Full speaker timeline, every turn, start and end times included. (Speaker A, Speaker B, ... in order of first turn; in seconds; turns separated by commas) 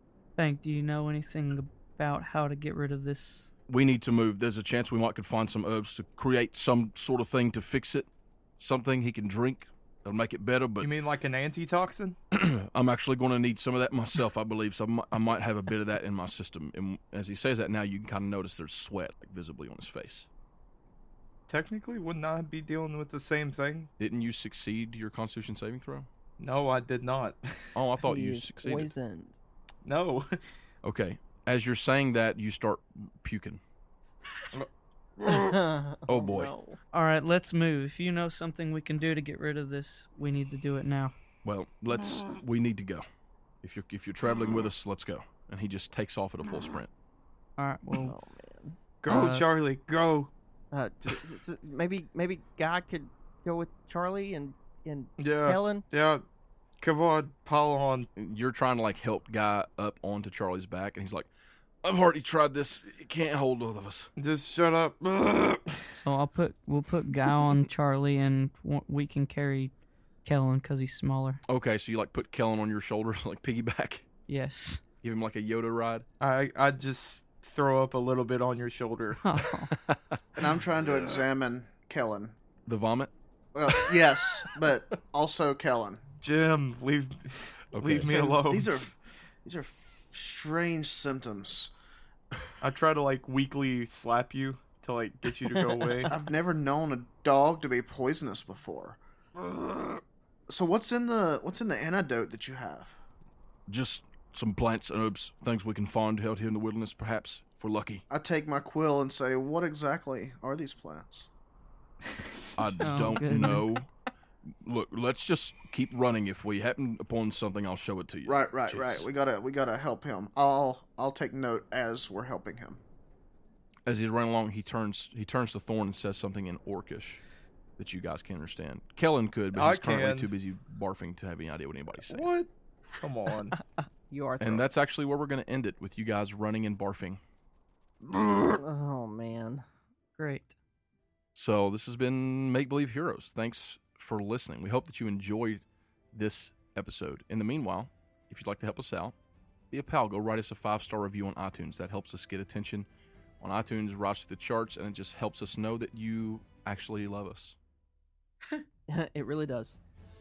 Speaker A: 0.4-3.5, Speaker B: 3.7-8.1, Speaker B: 8.6-10.9, Speaker C: 10.8-12.2, Speaker B: 12.3-20.3, Speaker C: 21.5-23.9, Speaker B: 24.0-26.1, Speaker C: 26.4-27.8, Speaker B: 27.8-28.9, Speaker D: 28.0-29.4, Speaker C: 29.9-30.4, Speaker B: 30.8-33.6, Speaker C: 34.5-35.5, Speaker D: 35.3-36.8, Speaker B: 36.1-36.5, Speaker A: 36.9-41.1, Speaker B: 41.4-43.0, Speaker B: 43.6-46.9, Speaker A: 47.6-48.2, Speaker D: 48.0-48.8, Speaker C: 49.0-50.3, Speaker A: 49.1-49.5, Speaker D: 50.7-55.9, Speaker C: 55.2-56.2, Speaker C: 56.8-58.1, Speaker B: 58.2-61.3, Speaker B: 61.8-64.1, Speaker C: 64.2-65.9, Speaker A: 65.9-69.7, Speaker A: 70.2-71.4, Speaker B: 71.5-74.1, Speaker A: 74.3-74.8, Speaker B: 75.0-76.1, Speaker C: 76.2-79.4, Speaker A: 79.2-79.7, Speaker B: 79.7-80.2, Speaker E: 80.4-82.4, Speaker B: 82.7-83.1, Speaker E: 83.5-86.0, Speaker B: 83.7-84.0, Speaker C: 86.2-88.8, Speaker B: 87.7-88.2, Speaker E: 88.0-91.7, Speaker C: 92.6-96.2, Speaker E: 96.1-99.0, Speaker E: 100.5-103.0, Speaker B: 103.7-108.0, Speaker E: 108.1-111.3, Speaker B: 112.6-113.9, Speaker A: 112.8-113.8, Speaker D: 113.4-113.6, Speaker B: 114.6-119.1, Speaker E: 118.3-122.8, Speaker B: 123.9-127.2, Speaker B: 127.8-132.3, Speaker C: 129.6-130.3, Speaker C: 132.1-132.5, Speaker C: 133.0-133.6, Speaker D: 133.6-134.7, Speaker B: 134.4-137.2, Speaker D: 138.3-139.7, Speaker A: 140.2-140.6, Speaker B: 141.3-149.1, Speaker B: 149.7-152.9, Speaker B: 153.4-157.6, Speaker D: 158.9-159.8